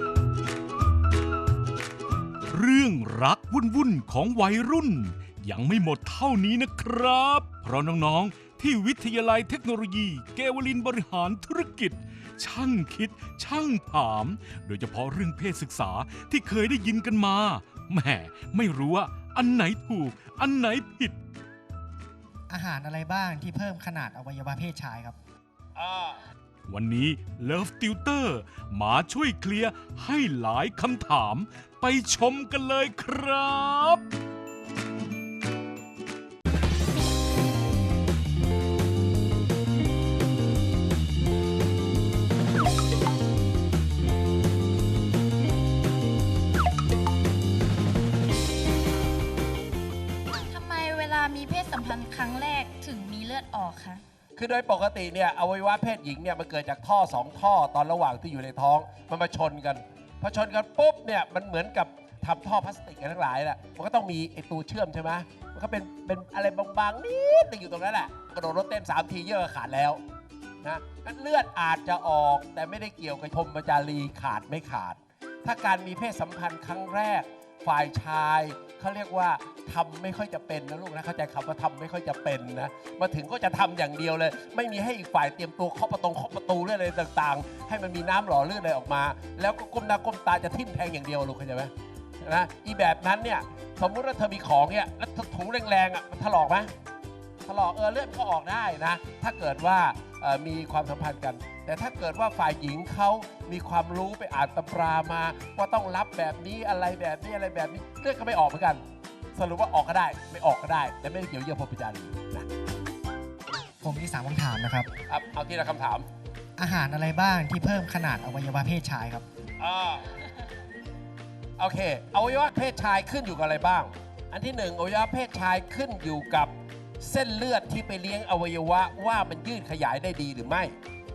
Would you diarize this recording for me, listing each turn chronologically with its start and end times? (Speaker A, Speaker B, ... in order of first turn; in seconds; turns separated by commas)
Speaker A: 2.5-21.2, Speaker B: 22.5-25.2, Speaker C: 25.7-26.2, Speaker A: 26.7-34.0, Speaker D: 50.5-54.0, Speaker C: 54.4-70.0, Speaker C: 70.6-96.7, Speaker C: 97.4-108.8, Speaker C: 109.3-112.5, Speaker B: 113.8-114.9, Speaker C: 115.1-116.1, Speaker B: 116.6-119.2, Speaker C: 119.6-120.1, Speaker C: 121.6-130.8